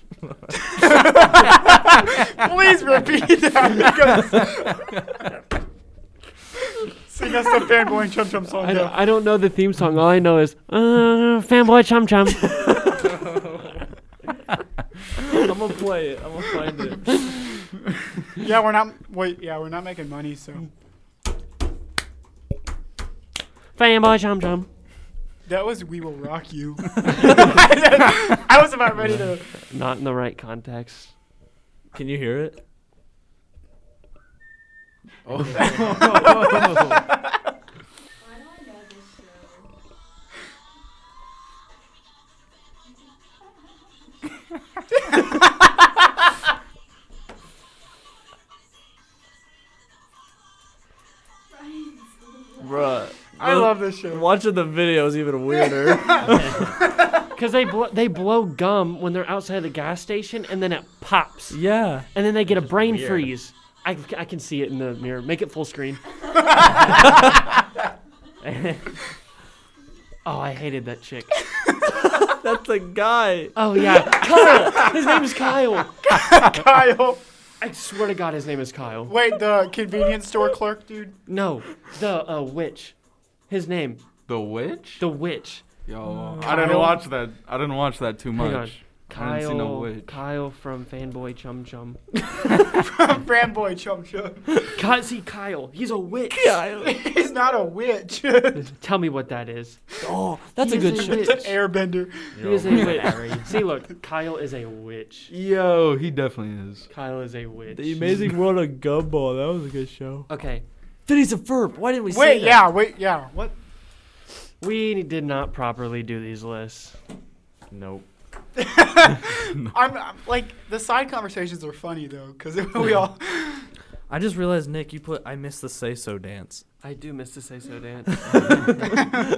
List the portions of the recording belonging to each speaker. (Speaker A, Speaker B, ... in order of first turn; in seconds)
Speaker A: 0.6-4.9, 7.0-9.0, 18.3-20.6, 25.4-29.5, 36.1-36.8, 53.3-54.3, 56.1-56.5, 76.0-77.2, 79.1-81.2, 86.4-87.0, 92.5-94.6, 96.8-98.7, 100.7-102.4, 112.1-113.5, 118.5-123.7
Speaker B: 8.5-13.0, 23.8-24.7, 28.9-31.1, 57.3-61.6, 62.1-66.0, 70.2-71.4, 73.5-76.0, 77.6-79.1, 81.2-82.9, 83.5-84.0, 85.0-85.7, 86.5-87.0, 88.3-92.0, 94.7-96.5, 98.6-99.8, 100.6-101.6, 102.4-105.3, 106.9-108.3, 110.3-110.6, 114.6-117.0, 126.8-129.1
Speaker C: 12.9-13.4, 56.4-56.7, 62.5-63.3, 68.4-68.9, 102.3-103.5, 117.7-118.1
Speaker D: 15.2-17.2, 31.9-32.6, 52.6-56.5, 61.5-62.1, 71.9-73.5, 86.0-86.7, 96.3-97.0, 100.0-101.4, 107.7-110.3, 111.1-112.7, 124.1-126.6, 128.2-128.5
Speaker E: 35.2-37.0, 84.3-85.0, 85.8-90.2, 105.3-106.9
Speaker F: 38.2-39.7, 51.5-53.1